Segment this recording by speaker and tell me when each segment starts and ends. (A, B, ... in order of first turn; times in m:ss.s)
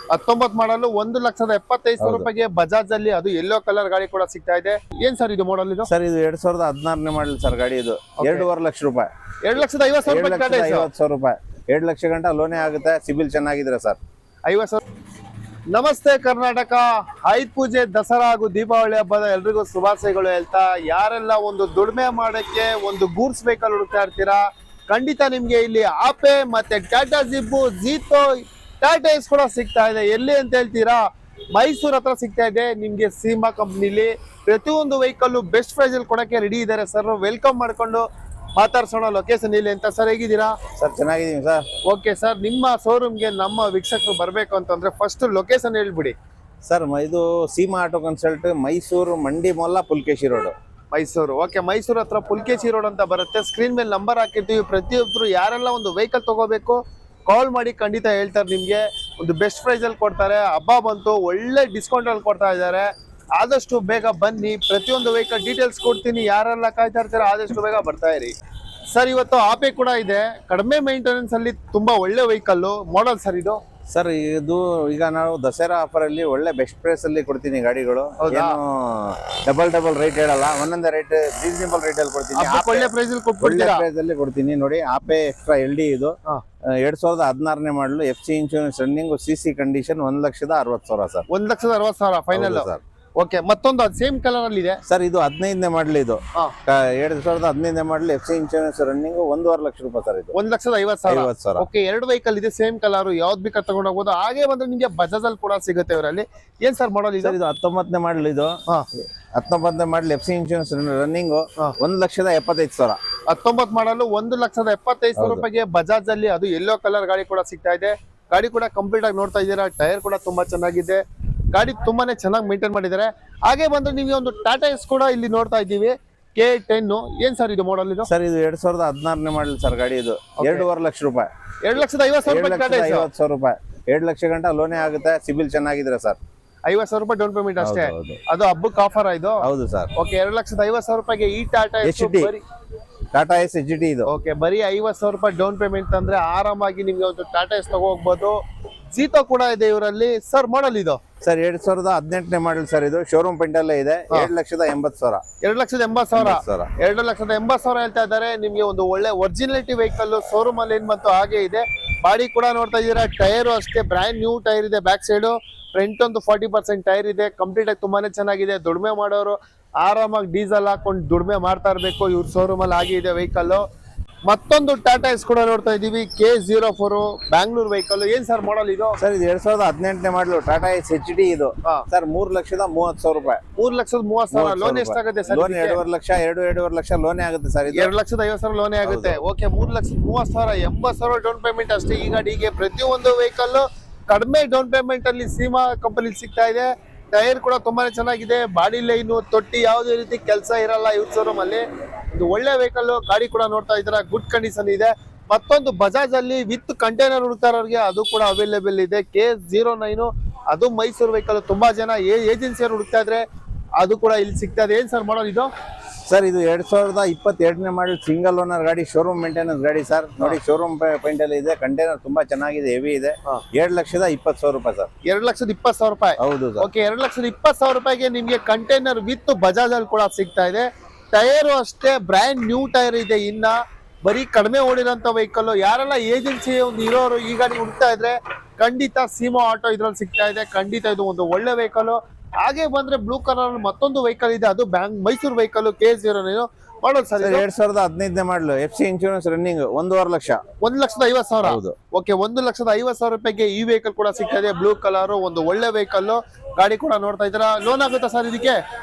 0:00.1-0:05.9 A
0:02.0-0:02.3 B
0:05.9-0:09.1 B
0:08.2-0:08.5 A
0:09.4-0:10.9 A
0:10.0-0:14.0 B
0:14.5-0:14.8 A
0:15.7-0:40.6 A
0:40.8-0:41.6 B
0:41.8-0:46.1 A
0:46.6-0:50.5 B
0:50.9-1:08.3 A
1:08.9-1:13.6 A
1:13.9-1:22.9 B
1:18.2-1:18.6 A
1:22.3-1:23.8 A
1:23.4-1:26.1 B
1:26.7-1:31.2 B
1:31.3-1:34.8 A
1:32.3-1:32.8 B
1:34.9-1:40.3 B
1:40.3-1:47.4 A
1:41.1-1:41.6 B
1:47.2-1:53.0 B
1:53.3-2:01.0 A
1:55.2-1:55.4 B
2:01.5-2:08.1 A
2:08.0-2:11.3 B
2:10.4-2:10.7 A
2:11.6-2:13.1 A
2:12.2-2:16.2 B
2:16.7-2:19.4 A
2:17.6-2:18.2 B
2:19.4-2:19.9 B
2:20.0-2:22.4 A
2:21.8-2:22.3 B
2:23.1-2:24.1 B
2:24.1-2:28.4 A
2:28.9-2:31.0 A
2:31.2-2:35.2 B
2:35.4-2:53.6 A
2:36.1-2:36.7 B
2:54.3-2:59.0 A
2:59.0-3:03.4 B
3:03.6-3:05.8 A
3:04.3-3:07.9 B
3:07.7-3:33.2 A
3:08.8-3:09.2 B
3:33.8-3:35.5 A
3:36.1-3:44.9 B
3:45.0-4:07.4 A
3:46.2-3:46.7 B
4:07.2-4:10.4 B
4:10.6-4:18.6 A
4:11.4-4:11.8 B